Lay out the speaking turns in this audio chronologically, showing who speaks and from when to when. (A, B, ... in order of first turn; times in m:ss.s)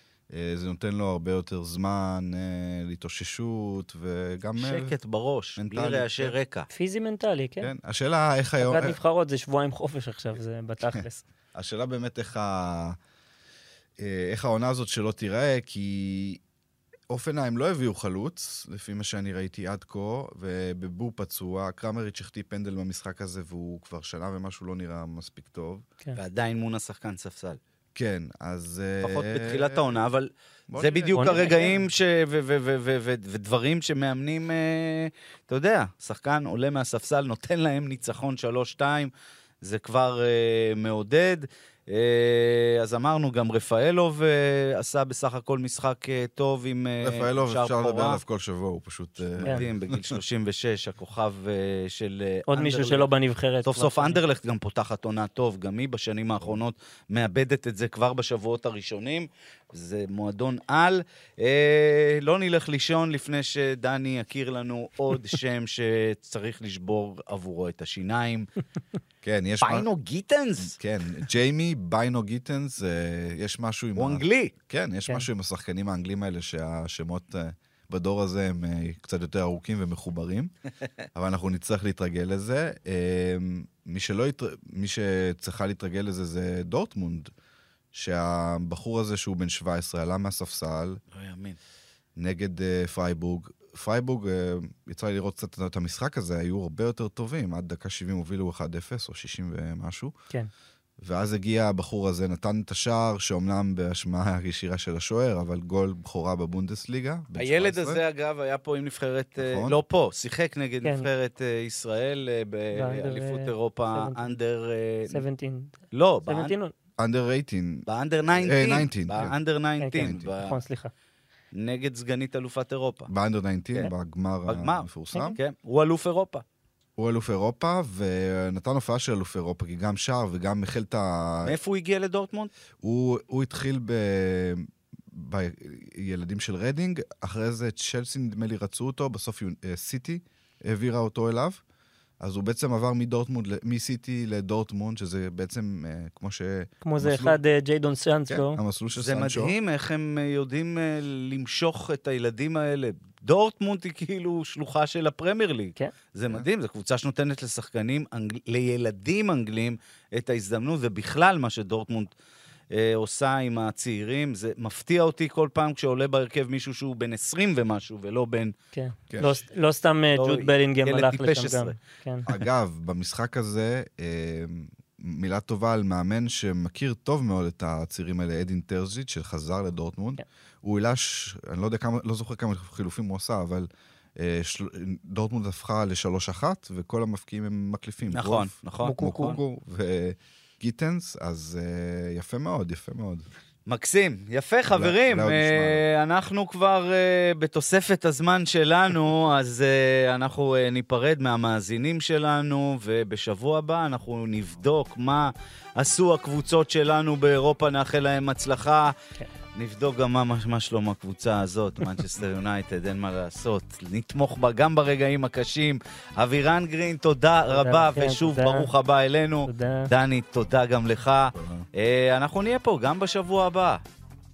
0:00.3-0:04.9 A
0:04.6-0:06.7 B
0:05.6-0:06.3 A
0:06.7-0:07.7 C
0:07.6-0:09.0 A
0:08.6-0:11.2 C
0:10.9-0:13.0 A
0:14.0-0:16.4 A
0:17.1-0:25.8 A
0:26.2-0:27.6 B
0:27.9-0:29.8 A
0:29.0-0:48.2 B
0:30.7-0:31.8 A
0:31.1-0:31.7 C
0:47.0-0:50.2 A
0:49.4-0:53.1 B
0:52.5-0:54.2 C
0:53.6-1:08.5 B
1:09.2-1:09.9 A
1:09.6-1:10.8 B
1:10.8-1:20.5 A
1:13.9-1:14.5 B
1:21.1-1:27.3 A
1:27.9-1:31.0 A
1:31.1-1:31.6 B
1:32.2-1:40.1 A
1:41.0-1:48.0 A
1:47.4-1:55.2 B
1:49.4-1:49.8 A
1:50.8-1:51.1 C
1:52.7-1:54.3 C
1:55.1-1:56.7 C
1:55.9-1:56.5 B
1:57.0-1:59.3 A
1:57.9-2:00.6 B
1:59.8-2:00.9 C
2:00.0-2:00.3 A
2:01.5-2:03.1 B
2:03.1-2:05.4 A
2:04.5-2:06.4 B
2:07.0-2:11.6 A
2:11.4-2:12.5 B
2:12.8-2:21.6 A
2:22.2-2:27.4 A
2:26.8-2:28.6 C
2:28.3-2:29.5 A
2:28.9-2:42.1 B
2:42.7-2:48.5 B
2:48.7-2:52.3 C
2:49.1-2:49.4 A
2:50.2-2:51.7 B
2:52.3-3:13.2 A
3:08.1-3:09.4 B
3:08.8-3:09.4 C
3:13.7-3:28.9 B
3:14.7-3:15.8 A
3:29.6-3:43.8 B
3:37.5-3:38.7 C
3:39.4-3:39.9 C
3:41.3-3:41.6 A